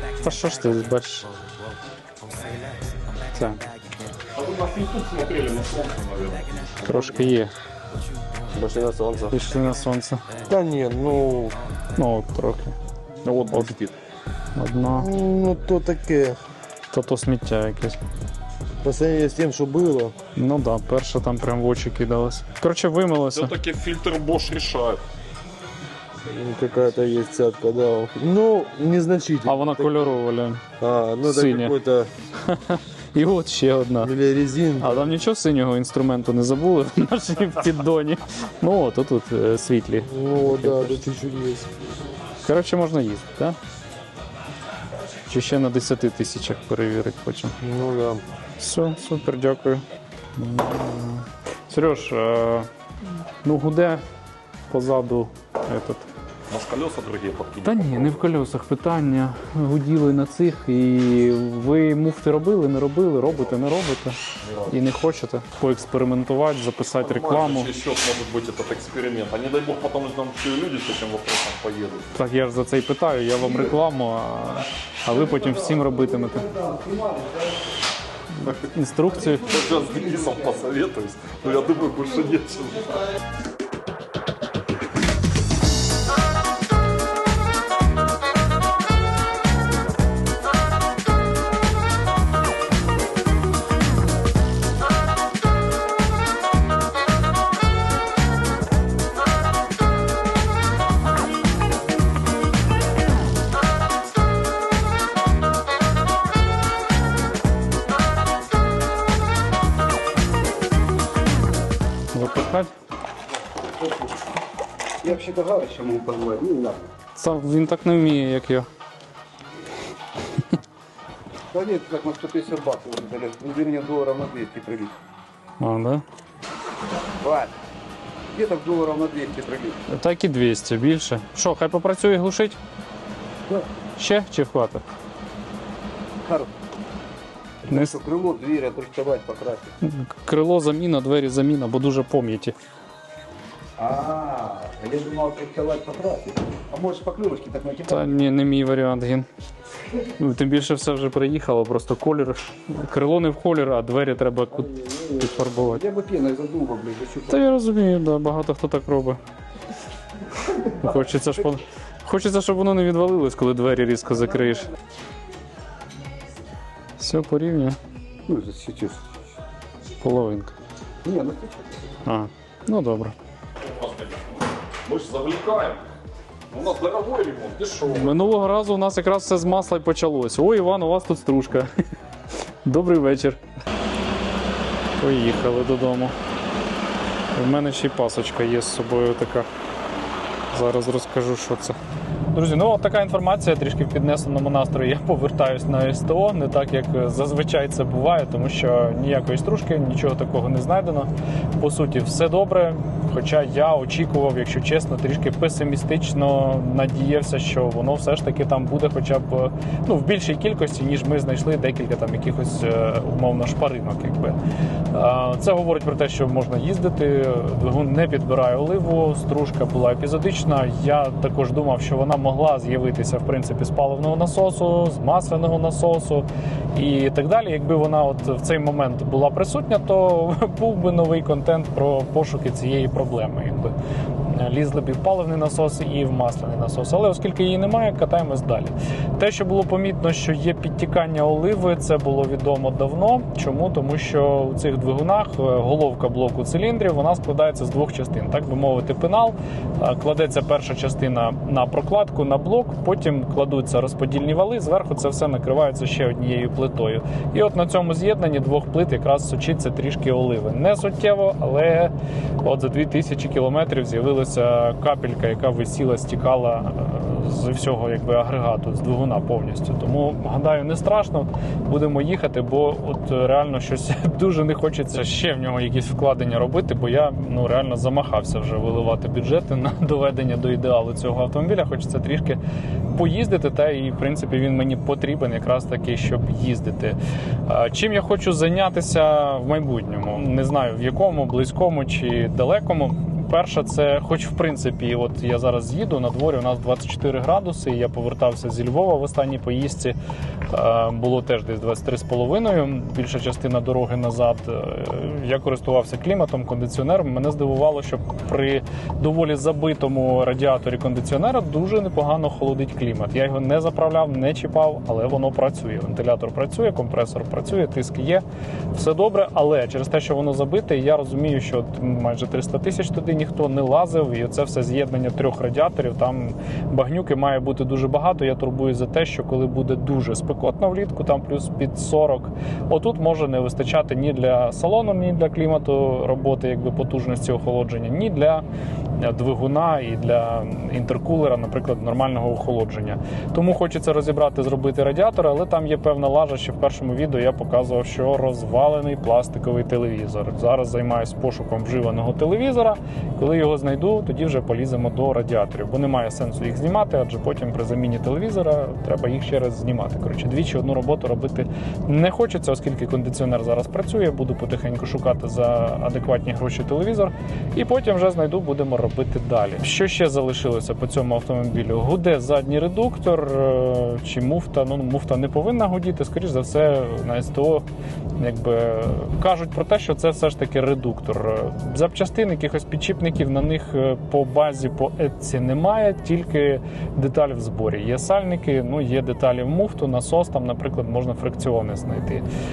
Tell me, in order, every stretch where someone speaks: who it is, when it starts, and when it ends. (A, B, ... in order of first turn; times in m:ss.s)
0:00.2-0:01.3 A
0:03.3-0:03.6 A
0:04.4-0:07.1 B
0:06.8-0:07.5 A
0:08.6-0:09.3 C
0:09.3-0:10.2 A
0:10.5-0:11.6 C
0:12.0-0:12.8 A
0:13.2-0:14.0 B
0:14.6-0:15.1 A
0:14.9-0:16.4 C
0:16.9-0:18.0 A
0:18.8-0:20.2 C
0:20.4-0:23.5 A
0:23.3-0:25.0 B
0:26.2-0:30.0 C
0:29.4-0:30.6 A
0:30.8-0:32.1 C
0:31.2-0:31.8 A
0:32.4-0:34.2 A
0:34.0-0:35.1 C
0:34.8-0:41.1 A
0:40.1-0:41.7 C
0:42.4-0:43.6 A
0:45.3-0:47.6 A
0:47.6-0:48.2 C
0:48.6-0:49.8 A
0:50.4-0:52.7 A
0:53.4-0:54.0 A
0:54.7-0:56.1 A
0:56.5-0:58.3 B
0:57.6-1:04.2 A
1:04.4-1:04.7 B
1:04.7-1:07.8 A
1:07.0-1:12.1 B
1:12.2-1:16.5 A
1:15.1-1:17.7 D
1:18.4-1:19.6 A
1:19.2-1:20.6 D
1:19.4-1:23.0 B
1:52.1-1:52.7 A
1:55.0-1:56.9 D
1:57.2-1:58.7 A
2:01.5-2:05.0 D
2:05.6-2:06.0 A
2:07.2-2:07.5 D
2:08.3-2:09.8 D
2:09.9-2:12.6 A
2:14.0-2:14.8 A
2:16.2-2:16.5 D
2:17.6-2:19.7 D
2:17.7-2:18.0 A
2:19.8-2:22.6 A
2:23.8-2:28.1 D
2:27.9-2:29.3 A
2:30.2-2:35.8 A
2:34.7-2:37.4 D
2:37.3-2:39.2 A
2:40.5-2:44.7 A
2:47.0-2:47.8 A
2:48.3-2:49.1 D
2:50.0-2:50.6 A
2:51.0-2:51.8 D
2:52.0-2:53.2 A
2:53.6-2:54.3 B
2:54.8-2:55.9 B
2:56.5-2:58.2 B
2:57.9-3:01.7 A
3:02.6-3:03.4 A
3:05.0-3:06.2 A
3:07.3-3:09.5 A
3:10.5-3:11.8 A
3:12.3-3:34.4 A
3:34.9-3:53.7 A
3:54.3-5:00.0 A
5:00.5-5:38.4 A
5:39.0-6:17.7 A
6:18.2-6:32.3 A